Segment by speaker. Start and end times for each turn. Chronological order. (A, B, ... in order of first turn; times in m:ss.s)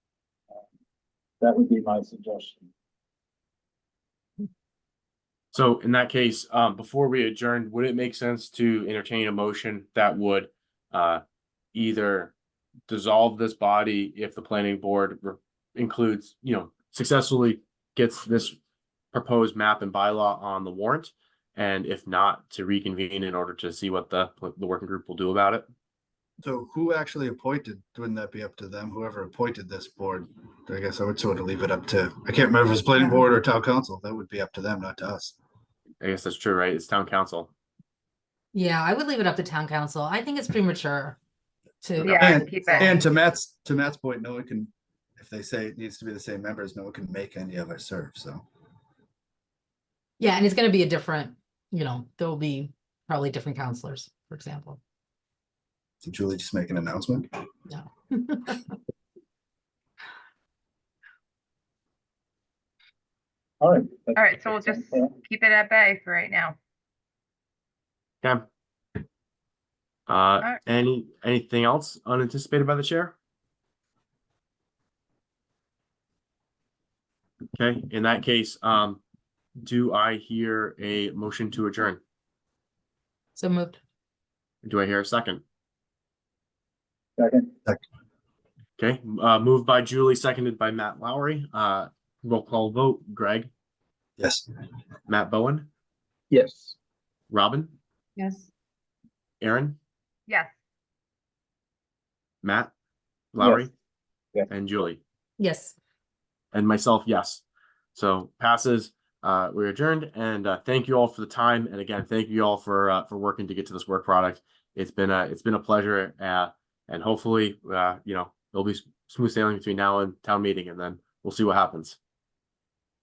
0:01.4-0:02.7 A
0:05.5-0:11.2 B
0:11.7-0:12.3 B
0:12.9-0:18.6 B
0:19.1-0:25.7 B
0:26.4-0:35.4 C
0:33.0-0:33.2 D
0:36.0-0:37.5 B
0:38.5-0:41.2 D
0:41.8-0:43.0 D
0:42.0-0:43.0 E
0:42.1-0:48.4 C
0:50.2-0:54.8 D
0:56.0-0:57.3 C
0:57.7-0:58.6 D
1:03.6-1:05.2 A
1:04.2-1:06.6 E
1:10.1-1:13.2 B
1:17.6-1:19.0 B
1:19.6-1:22.0 B
1:23.4-1:23.8 D
1:24.6-1:25.4 B
1:27.2-1:27.5 A
1:28.8-1:33.5 B
1:34.2-1:34.5 C
1:35.1-1:35.7 B
1:36.3-1:36.6 A
1:37.3-1:37.7 B
1:38.2-1:38.5 E
1:39.4-1:39.8 B
1:42.4-1:42.7 B
1:43.3-1:43.7 B
1:44.5-1:45.0 B
1:45.4-1:45.8 D
1:46.5-1:47.4 B
1:48.0-2:02.0 B